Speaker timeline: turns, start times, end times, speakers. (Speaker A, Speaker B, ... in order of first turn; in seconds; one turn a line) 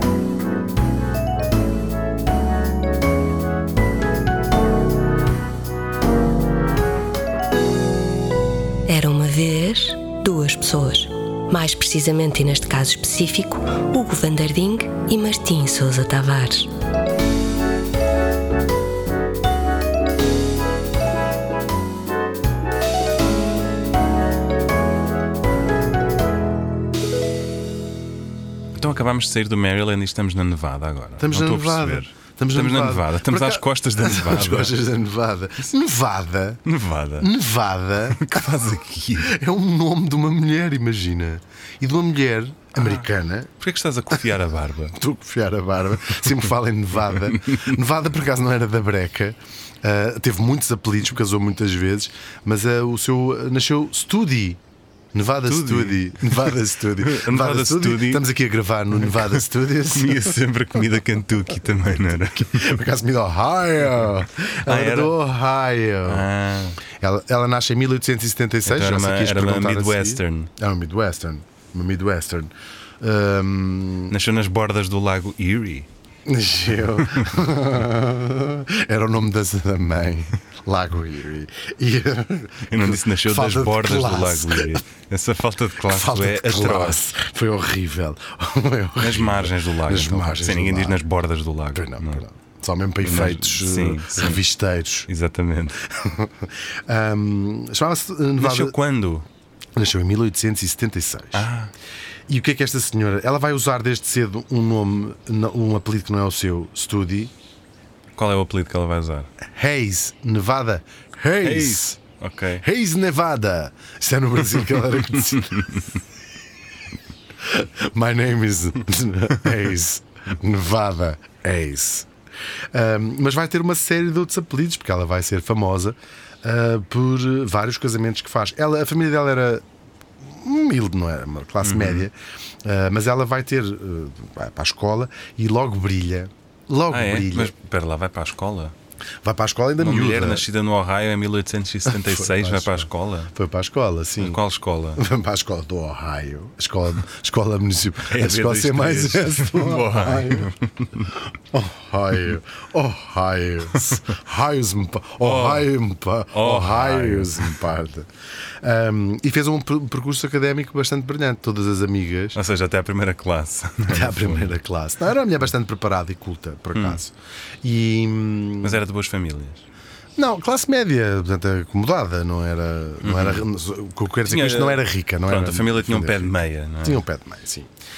Speaker A: 8.9-16.7
Speaker B: 28.8-34.8
Speaker C: 31.2-36.6
Speaker B: 36.6-37.3
Speaker C: 37.2-38.6
Speaker B: 38.0-39.3
Speaker C: 39.2-43.5
Speaker B: 42.8-43.1
Speaker B: 43.6-45.0
Speaker C: 44.9-54.6
Speaker C: 55.1-60.4
Speaker B: 55.5-58.2
Speaker B: 59.1-62.8
Speaker C: 62.4-66.3
Speaker B: 64.6-65.2
Speaker B: 66.0-66.8
Speaker C: 66.8-74.1
Speaker B: 68.7-70.5
Speaker B: 74.1-75.9
Speaker C: 76.3-84.8
Speaker B: 76.9-77.4
Speaker B: 82.7-87.0
Speaker C: 85.8-91.0
Speaker B: 89.0-92.2
Speaker C: 91.7-95.1
Speaker B: 93.0-94.4
Speaker B: 95.1-95.8
Speaker C: 95.9-98.8
Speaker B: 98.4-99.3
Speaker C: 99.8-101.5
Speaker B: 101.3-101.7
Speaker C: 102.3-107.3
Speaker B: 108.2-109.3
Speaker C: 109.4-112.0
Speaker B: 111.4-112.6
Speaker C: 112.6-115.8
Speaker C: 117.4-122.1
Speaker C: 122.7-129.6
Speaker C: 130.2-132.1
Speaker B: 131.6-132.1
Speaker C: 132.6-137.5
Speaker B: 136.9-138.8
Speaker C: 139.2-140.4
Speaker B: 139.8-143.3
Speaker C: 141.9-144.4
Speaker B: 144.2-145.0
Speaker C: 145.0-150.5
Speaker B: 148.0-151.2
Speaker C: 151.2-158.1
Speaker B: 155.2-155.7
Speaker B: 156.3-157.6
Speaker C: 158.6-162.4
Speaker B: 162.3-164.6
Speaker C: 163.9-168.8
Speaker B: 166.7-167.0
Speaker B: 168.6-169.7
Speaker C: 170.2-177.7
Speaker B: 173.0-173.5
Speaker B: 174.3-177.0